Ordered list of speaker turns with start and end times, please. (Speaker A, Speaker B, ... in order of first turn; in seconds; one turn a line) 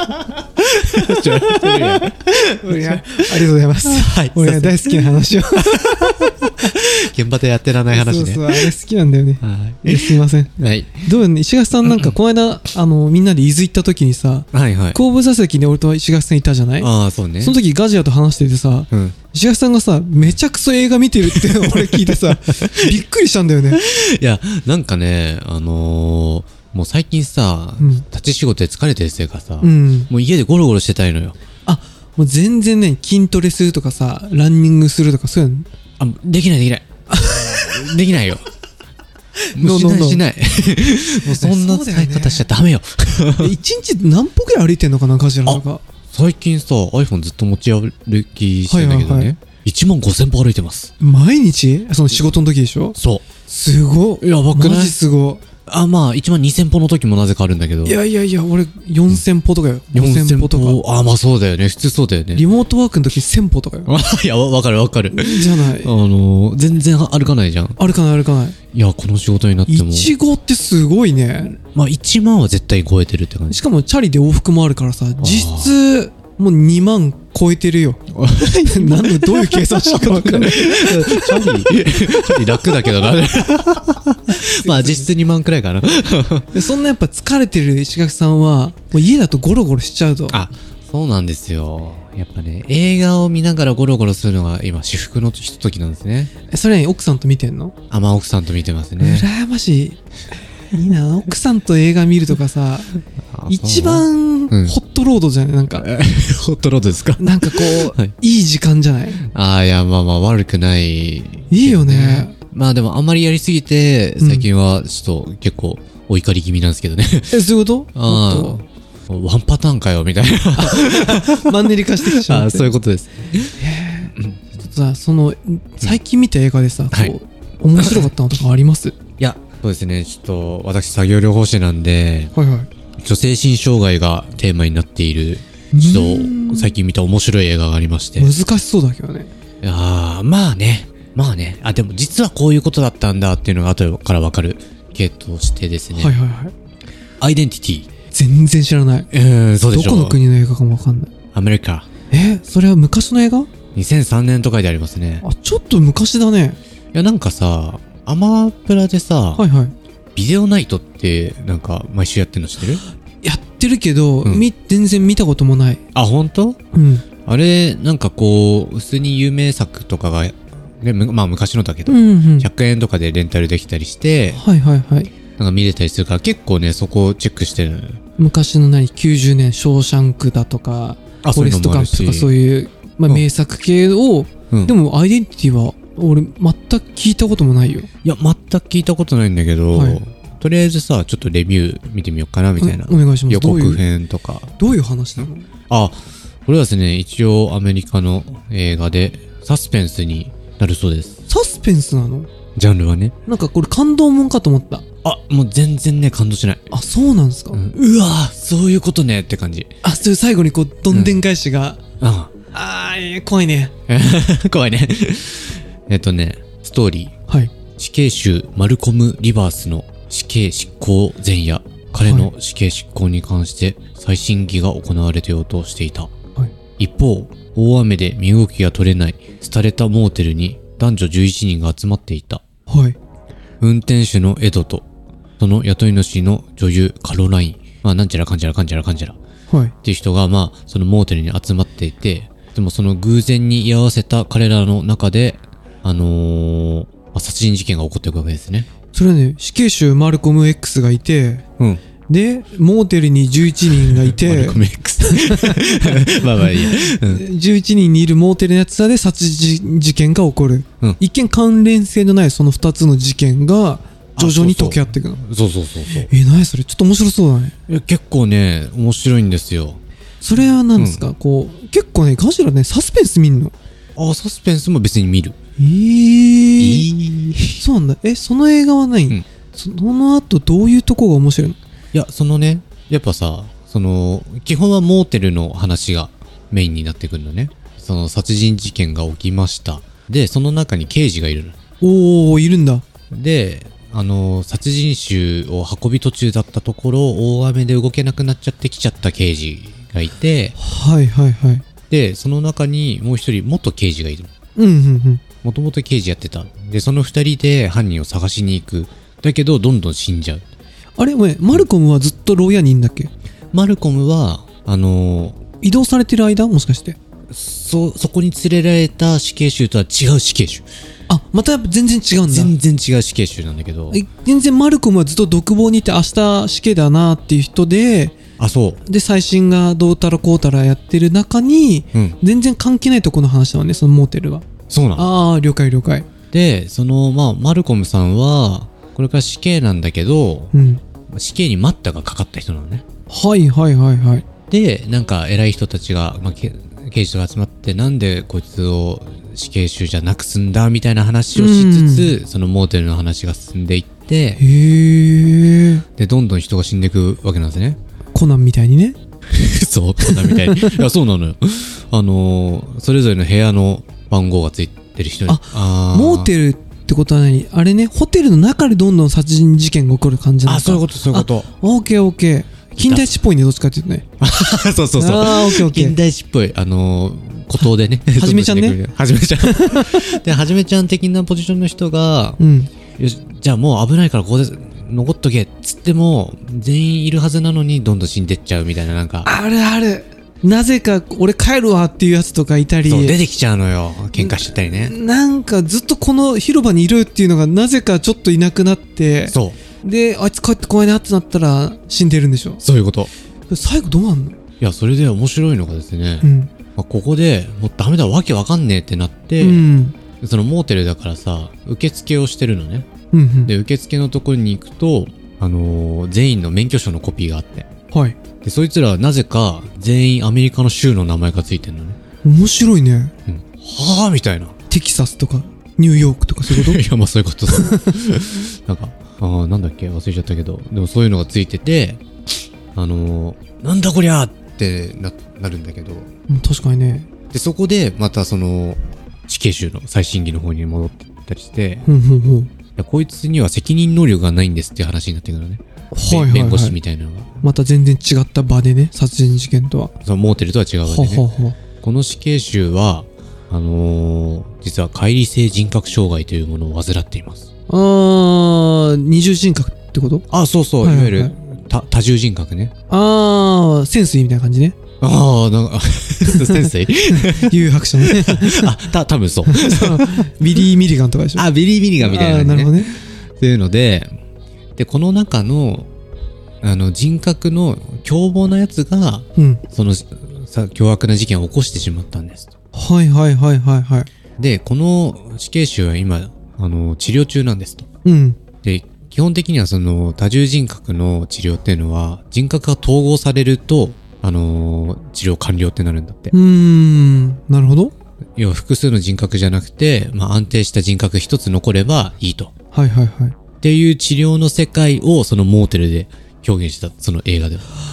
Speaker A: 0.8-5.1
Speaker B: 0.9-6.0
Speaker A: 5.6-8.7
Speaker B: 7.9-23.8
Speaker A: 9.4-11.1
Speaker A: 11.8-12.1
Speaker A: 14.5-15.0
Speaker A: 16.8-17.6
Speaker A: 18.9-19.1
Speaker A: 21.3-22.9
Speaker A: 23.7-31.4
Speaker B: 27.8-28.1
Speaker B: 29.6-30.1
Speaker B: 31.6-35.7
Speaker A: 36.0-38.4
Speaker B: 37.1-37.9
Speaker B: 39.5-40.2
Speaker A: 39.5-43.5
Speaker B: 41.2-42.4
Speaker B: 43.4-45.8
Speaker A: 45.4-50.9
Speaker B: 48.7-49.3
Speaker B: 51.0-53.0
Speaker A: 53.0-53.2
Speaker B: 53.5-55.4
Speaker A: 54.2-55.0
Speaker A: 55.6-58.0
Speaker B: 57.8-60.8
Speaker A: 59.9-62.4
Speaker B: 62.3-63.9
Speaker A: 63.9-67.8
Speaker B: 65.1-65.9
Speaker B: 67.8-68.5
Speaker A: 68.7-70.1
Speaker B: 69.7-71.5
Speaker A: 71.6-73.6
Speaker B: 73.5-82.7
Speaker A: 75.2-75.7
Speaker A: 78.1-86.5
Speaker B: 84.6-85.1
Speaker B: 86.5-90.4
Speaker A: 90.3-96.3
Speaker B: 96.5-97.7
Speaker A: 97.9-99.2
Speaker B: 99.0-100.0
Speaker B: 100.7-102.9
Speaker A: 103.3-104.7
Speaker B: 103.5-105.9
Speaker A: 105.7-108.1
Speaker B: 107.2-109.2
Speaker A: 109.3-117.4
Speaker B: 111.5-112.3
Speaker B: 114.2-114.5
Speaker B: 117.3-118.6
Speaker A: 117.9-123.6
Speaker B: 120.5-122.8
Speaker B: 123.6-128.9
Speaker A: 127.8-128.1
Speaker A: 129.2-132.3
Speaker B: 132.3-132.7
Speaker A: 133.0-138.3
Speaker B: 135.7-136.7
Speaker B: 138.2-139.3
Speaker A: 139.6-146.2
Speaker B: 145.9-146.5
Speaker A: 147.2-147.9
Speaker B: 148.1-149.1
Speaker A: 149.1-150.2
Speaker B: 149.7-151.1
Speaker A: 151.3-151.9
Speaker B: 152.1-153.5
Speaker A: 153.7-155.2
Speaker B: 155.2-156.6
Speaker A: 156.9-159.4
Speaker B: 159.3-159.7
Speaker A: 160.2-162.8
Speaker B: 163.2-165.8
Speaker A: 165.9-166.6
Speaker B: 166.7-167.0
Speaker A: 167.2-174.4
Speaker B: 171.8-172.5
Speaker B: 174.3-175.1
Speaker A: 175.4-178.0
Speaker B: 178.2-187.9
Speaker A: 181.2-182.3
Speaker A: 188.0-194.5
Speaker B: 189.7-190.0
Speaker B: 192.6-193.8
Speaker B: 194.6-195.4
Speaker A: 195.7-201.2
Speaker B: 201.3-202.3
Speaker A: 202.6-203.1
Speaker B: 203.3-204.8
Speaker A: 205.0-206.6
Speaker B: 206.7-207.6
Speaker A: 207.5-209.7
Speaker B: 209.8-211.8
Speaker A: 210.9-211.2
Speaker A: 212.0-212.3
Speaker B: 212.5-213.7
Speaker A: 213.9-217.1
Speaker A: 217.8-226.1
Speaker B: 222.0-222.3
Speaker A: 226.8-232.4
Speaker B: 232.7-233.0
Speaker A: 233.6-234.8
Speaker A: 235.4-239.2
Speaker A: 239.8-248.7
Speaker B: 248.9-251.4
Speaker B: 252.1-265.2
Speaker A: 253.7-257.2
Speaker A: 264.1-266.1
Speaker B: 265.9-267.5
Speaker A: 267.7-269.8
Speaker B: 270.2-273.5
Speaker A: 270.8-271.0
Speaker A: 273.9-275.4
Speaker B: 275.6-276.9
Speaker A: 276.6-277.6
Speaker B: 277.6-281.6
Speaker A: 281.9-291.6
Speaker B: 291.8-292.8
Speaker A: 293.1-300.6
Speaker B: 300.6-301.6
Speaker A: 301.9-304.3
Speaker B: 304.6-305.2
Speaker A: 305.4-310.4
Speaker B: 311.0-313.1
Speaker A: 313.5-315.4
Speaker B: 315.6-317.0
Speaker A: 317.3-320.6
Speaker B: 321.1-322.5
Speaker A: 322.2-324.0
Speaker B: 323.9-328.1
Speaker A: 328.4-328.8
Speaker B: 328.9-334.4
Speaker A: 334.7-335.1
Speaker B: 334.9-336.1
Speaker A: 336.3-340.5
Speaker B: 340.5-340.8
Speaker A: 341.1-342.8
Speaker B: 343.1-344.2
Speaker A: 344.5-354.4
Speaker B: 351.3-352.1
Speaker B: 354.4-355.8
Speaker A: 356.0-357.8
Speaker B: 358.1-358.9
Speaker A: 359.3-366.3
Speaker B: 360.0-360.8
Speaker B: 365.3-374.0
Speaker A: 370.4-371.5
Speaker A: 372.8-373.1
Speaker A: 374.2-382.4
Speaker B: 375.0-376.0
Speaker B: 377.6-378.8
Speaker B: 379.4-380.2
Speaker B: 382.4-382.7
Speaker A: 383.0-389.3
Speaker B: 389.2-393.2
Speaker A: 392.8-394.9
Speaker B: 394.1-402.6
Speaker A: 399.3-399.6
Speaker A: 402.6-403.1
Speaker B: 403.5-404.4
Speaker A: 404.6-409.7
Speaker B: 406.2-406.5
Speaker B: 409.4-409.9
Speaker A: 410.2-412.9
Speaker B: 413.1-413.5
Speaker A: 413.5-417.7
Speaker B: 417.9-418.2
Speaker A: 418.4-422.0
Speaker B: 422.2-423.1
Speaker A: 423.3-424.5
Speaker B: 424.7-426.8
Speaker A: 426.5-432.0
Speaker B: 427.5-427.9
Speaker A: 432.7-436.1
Speaker B: 436.3-437.1
Speaker A: 437.3-441.9
Speaker B: 441.9-442.5
Speaker A: 442.8-447.3
Speaker B: 445.9-446.8
Speaker B: 447.4-449.9
Speaker A: 450.0-451.2
Speaker B: 450.9-451.6
Speaker A: 451.8-457.5
Speaker B: 457.7-460.2
Speaker A: 460.3-462.7
Speaker B: 460.8-461.3
Speaker B: 462.9-464.8
Speaker A: 465.0-470.3
Speaker B: 466.3-468.7
Speaker B: 469.4-471.4
Speaker A: 471.4-474.1
Speaker B: 472.0-472.9
Speaker A: 474.8-475.9
Speaker A: 476.6-482.5
Speaker B: 479.4-479.6
Speaker B: 482.7-484.1
Speaker A: 484.4-487.9
Speaker B: 488.0-488.4
Speaker A: 488.6-496.3
Speaker B: 496.3-497.9
Speaker A: 498.4-502.5
Speaker B: 502.7-503.3
Speaker A: 503.6-507.7